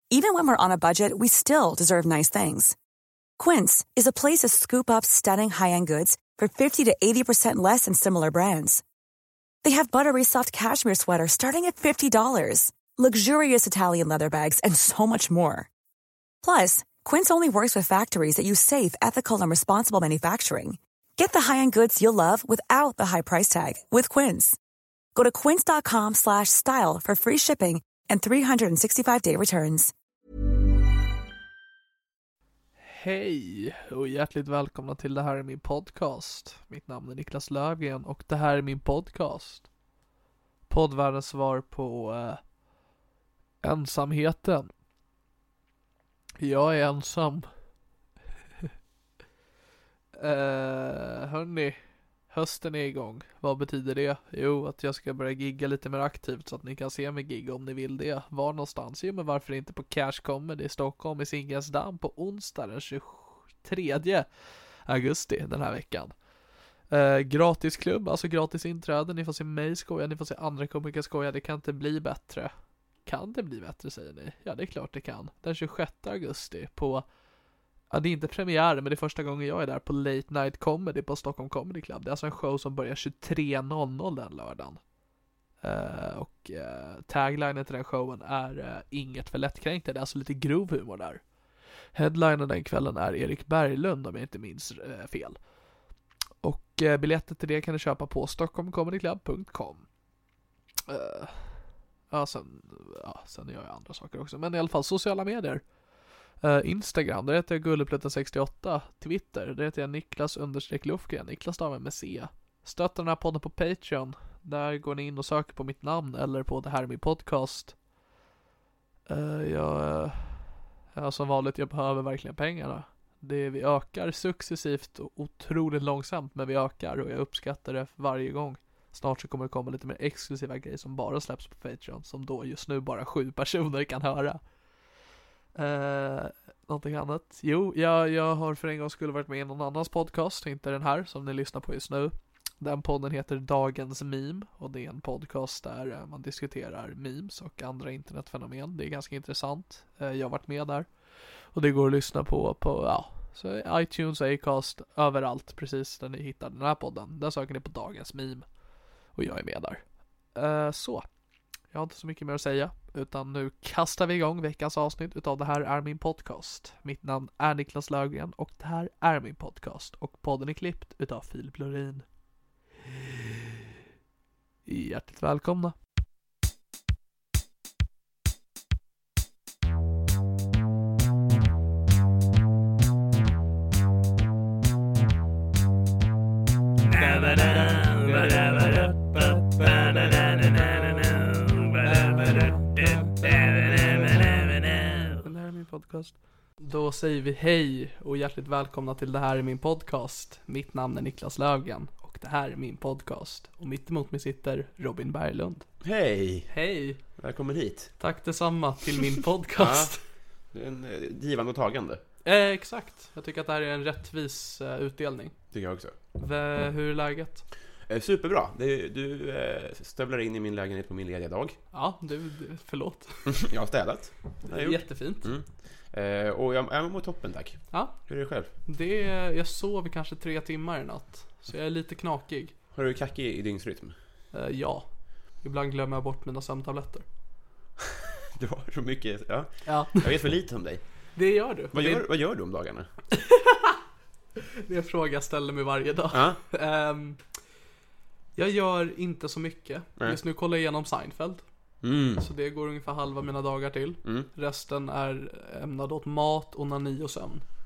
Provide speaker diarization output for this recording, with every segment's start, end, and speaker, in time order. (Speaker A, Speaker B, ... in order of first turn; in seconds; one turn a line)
Speaker A: 0.1-2.8
Speaker A: 3.4-8.8
Speaker A: 9.6-15.7
Speaker A: 16.4-24.6
Speaker A: 25.1-29.9
Speaker B: 32.8-39.6
Speaker B: 40.7-42.4
Speaker B: 43.6-44.7
Speaker B: 46.4-47.5
Speaker B: 50.2-64.3
Speaker B: 64.8-66.2
Speaker B: 66.9-72.5
Speaker B: 73.0-77.0
Speaker B: 77.9-84.8
Speaker B: 85.6-91.2
Speaker B: 91.9-95.4
Speaker B: 96.4-99.8
Speaker B: 100.9-105.6
Speaker B: 106.4-117.8
Speaker B: 119.1-134.4
Speaker B: 135.6-150.9
Speaker B: 151.5-158.4
Speaker B: 159.1-159.8
Speaker B: 160.3-161.1
Speaker B: 161.7-172.0
Speaker B: 174.7-175.7
Speaker B: 187.0-205.7
Speaker C: 205.8-206.5
Speaker B: 206.5-207.0
Speaker C: 207.2-207.9
Speaker B: 208.0-210.0
Speaker C: 209.6-209.9
Speaker C: 210.5-212.0
Speaker B: 212.2-215.3
Speaker C: 215.5-215.9
Speaker B: 216.2-217.4
Speaker C: 217.9-221.6
Speaker B: 221.7-223.2
Speaker C: 223.3-228.5
Speaker B: 224.5-225.3
Speaker B: 227.7-228.0
Speaker B: 228.7-232.5
Speaker C: 232.7-233.9
Speaker B: 234.3-234.8
Speaker B: 235.4-237.0
Speaker C: 238.3-240.8
Speaker B: 239.7-240.1
Speaker B: 241.2-242.1
Speaker C: 241.7-242.9
Speaker B: 243.1-243.7
Speaker B: 244.6-247.2
Speaker C: 246.1-246.4
Speaker B: 248.3-251.4
Speaker C: 251.8-252.2
Speaker B: 252.2-257.4